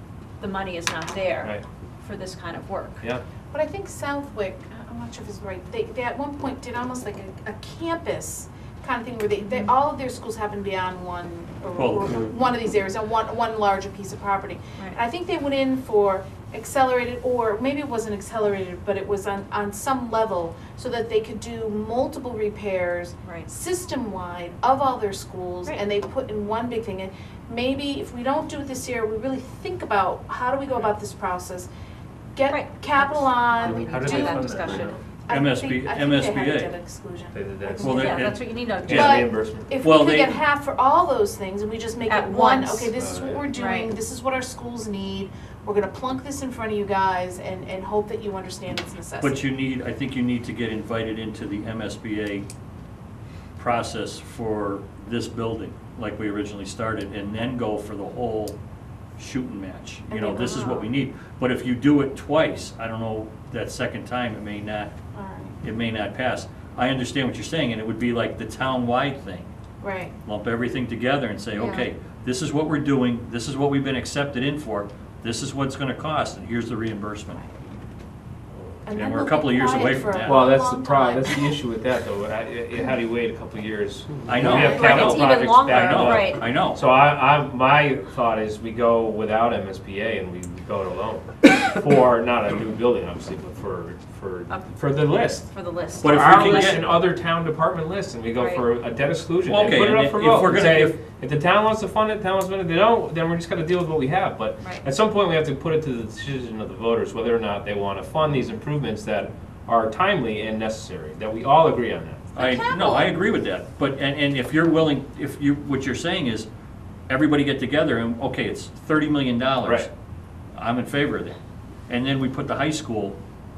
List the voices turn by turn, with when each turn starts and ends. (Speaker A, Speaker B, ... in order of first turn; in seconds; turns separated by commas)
Speaker A: 0.4-3.0, Speaker B: 3.5-31.7, Speaker C: 11.7-12.2, Speaker A: 23.2-23.5, Speaker B: 32.3-38.2, Speaker A: 32.5-35.0, Speaker D: 33.6-35.0, Speaker C: 35.3-36.7, Speaker D: 37.3-38.1, Speaker C: 37.8-39.2, Speaker A: 37.8-39.1, Speaker D: 38.8-39.7, Speaker B: 38.9-49.4, Speaker C: 39.8-40.4, Speaker A: 42.1-42.9, Speaker D: 43.0-43.4, Speaker A: 43.5-43.9, Speaker C: 49.2-52.5, Speaker C: 53.6-58.6, Speaker C: 59.2-64.9, Speaker B: 60.1-60.9, Speaker B: 65.1-65.6, Speaker C: 65.6-69.5, Speaker B: 69.8-70.2, Speaker C: 70.2-77.4, Speaker A: 71.6-71.8, Speaker B: 78.8-81.6, Speaker C: 78.9-80.5, Speaker D: 80.2-112.3, Speaker C: 84.2-86.8, Speaker B: 84.4-85.3, Speaker A: 84.5-86.4, Speaker A: 94.5-96.8, Speaker C: 96.0-97.0, Speaker A: 98.3-98.7, Speaker C: 99.5-101.0, Speaker C: 112.3-116.5, Speaker B: 112.4-113.1, Speaker A: 112.5-113.0, Speaker C: 117.1-119.9, Speaker D: 119.6-119.9, Speaker C: 120.5-123.2